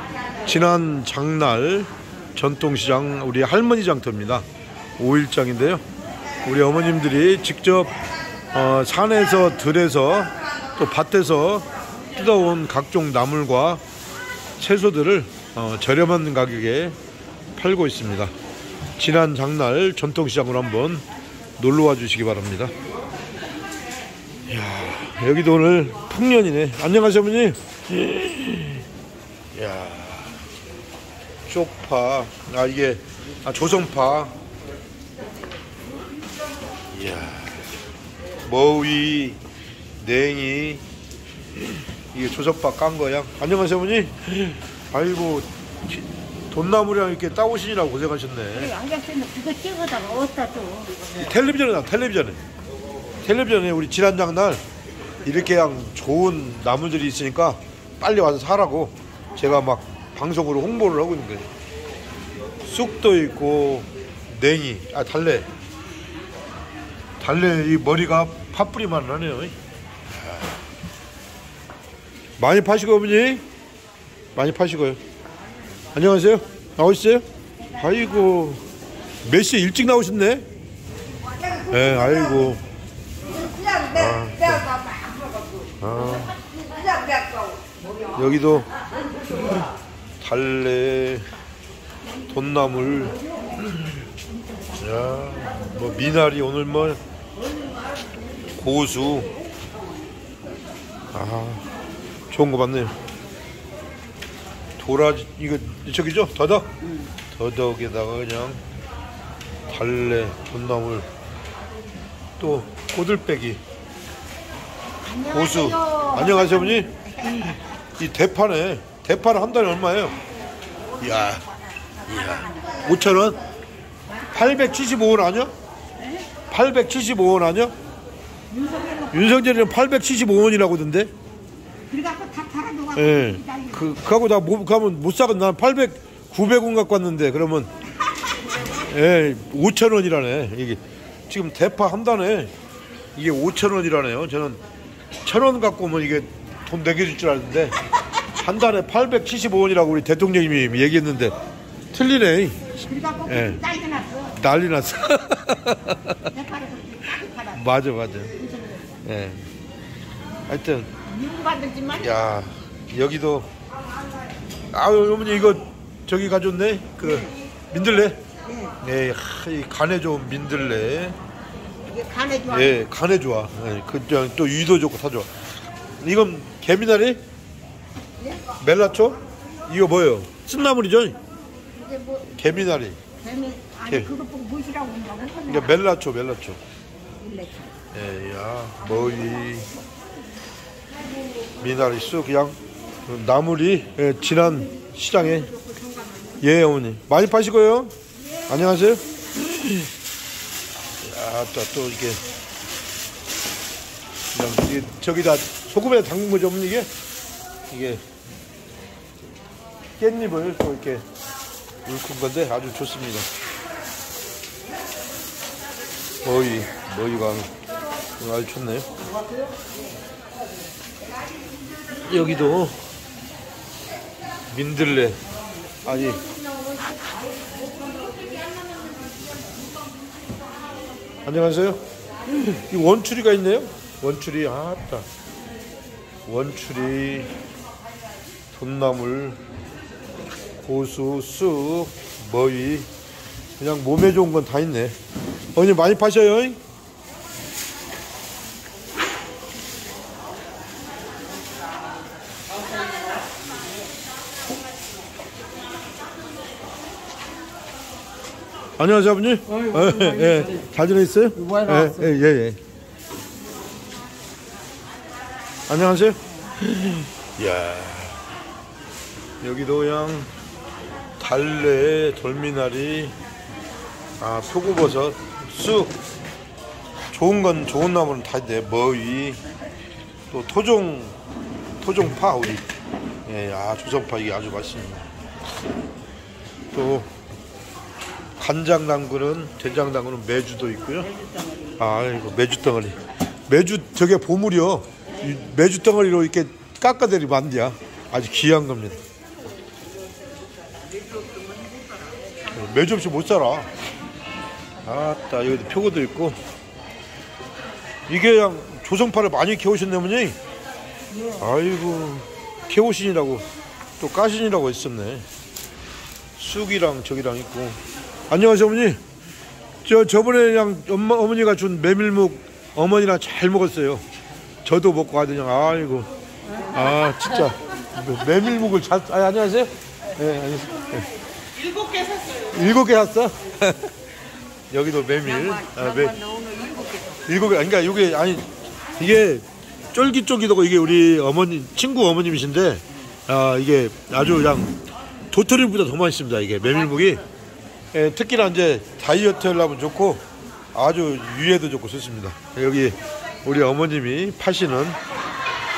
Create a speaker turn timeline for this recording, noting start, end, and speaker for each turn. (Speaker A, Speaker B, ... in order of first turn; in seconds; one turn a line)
Speaker A: 0.4-4.5
Speaker A: 5.0-5.8
Speaker A: 6.4-8.0
Speaker A: 8.5-13.8
Speaker A: 14.6-17.0
Speaker A: 17.6-18.3
Speaker A: 19.0-21.1
Speaker A: 21.6-22.7
Speaker A: 24.5-28.8
Speaker A: 29.6-30.4
Speaker A: 31.5-34.3
Speaker A: 36.9-37.6
Speaker A: 38.5-39.4
Speaker A: 40.0-40.8
Speaker A: 42.1-48.7
Speaker B: 48.5-51.0
Speaker A: 51.1-52.4
Speaker A: 53.2-54.6
Speaker A: 55.2-61.5
Speaker A: 62.6-65.5
Speaker A: 67.2-69.5
Speaker A: 72.4-73.4
Speaker A: 74.3-75.0
Speaker A: 75.9-77.2
Speaker A: 77.8-78.6
Speaker A: 79.2-80.5
Speaker A: 81.7-82.6
Speaker A: 83.9-84.7
Speaker A: 85.8-86.4
Speaker A: 88.2-88.7
Speaker A: 90.2-91.3
Speaker A: 92.3-93.2
Speaker A: 94.8-97.0
Speaker A: 98.6-99.3
Speaker A: 101.1-101.7
Speaker A: 102.3-102.9
Speaker A: 104.8-106.7
Speaker A: 107.3-108.6
Speaker A: 109.7-111.1
Speaker A: 112.4-113.6
Speaker B: 115.0-117.5
Speaker A: 115.3-116.9
Speaker A: 118.0-120.2
Speaker A: 121.0-121.5
Speaker A: 122.1-123.4
Speaker A: 124.3-125.5
Speaker A: 126.5-127.7
Speaker B: 128.5-129.2
Speaker A: 129.1-131.1
Speaker B: 131.9-133.8
Speaker A: 132.9-137.7
Speaker A: 138.6-142.5
Speaker A: 143.2-144.6
Speaker A: 145.2-147.8
Speaker A: 148.3-151.3
Speaker A: 151.9-153.6
Speaker B: 152.9-154.4
Speaker A: 154.3-156.2
Speaker B: 156.2-157.6
Speaker A: 157.5-158.3
Speaker A: 159.1-159.4
Speaker A: 160.5-160.9
Speaker B: 161.1-162.2
Speaker A: 161.9-163.5
Speaker A: 164.7-168.2
Speaker B: 168.5-168.8
Speaker A: 168.8-171.2
Speaker B: 171.9-172.8
Speaker A: 172.5-175.3
Speaker A: 176.0-177.2
Speaker A: 178.6-181.2
Speaker B: 181.8-182.2
Speaker A: 182.3-183.0
Speaker B: 183.2-185.7
Speaker A: 185.5-186.6
Speaker B: 187.2-187.6
Speaker A: 187.9-189.7
Speaker A: 191.6-195.5
Speaker A: 196.4-197.9
Speaker A: 198.5-199.0
Speaker A: 201.0-202.2
Speaker A: 204.3-206.9
Speaker A: 207.7-208.0
Speaker A: 210.0-211.1
Speaker A: 211.8-213.3
Speaker A: 216.2-217.5
Speaker A: 218.2-218.9
Speaker A: 222.0-222.8
Speaker A: 224.5-225.2
Speaker A: 225.8-226.2
Speaker B: 228.1-228.9
Speaker A: 231.2-235.1
Speaker A: 236.3-237.3
Speaker A: 238.5-239.4
Speaker A: 240.6-242.9
Speaker A: 243.6-245.0
Speaker A: 245.6-246.6
Speaker A: 258.8-262.6
Speaker A: 265.7-268.2
Speaker A: 269.4-270.3
Speaker A: 271.2-273.2
Speaker A: 274.2-276.0
Speaker A: 277.1-279.4
Speaker A: 280.3-281.2
Speaker A: 281.8-282.7
Speaker A: 283.3-285.1
Speaker A: 286.7-287.1
Speaker A: 288.4-291.1
Speaker A: 291.8-299.0
Speaker B: 301.2-301.6
Speaker A: 302.5-303.7
Speaker A: 304.8-306.4
Speaker A: 308.1-310.4
Speaker A: 311.4-313.4
Speaker A: 314.0-315.2
Speaker A: 316.4-317.8
Speaker A: 318.3-319.0
Speaker A: 319.8-324.0
Speaker A: 324.6-326.1
Speaker A: 326.6-331.1
Speaker A: 332.4-333.9
Speaker A: 334.7-336.2
Speaker B: 335.8-337.2
Speaker A: 337.2-344.8
Speaker A: 345.3-347.2
Speaker A: 347.9-350.2
Speaker A: 350.7-355.0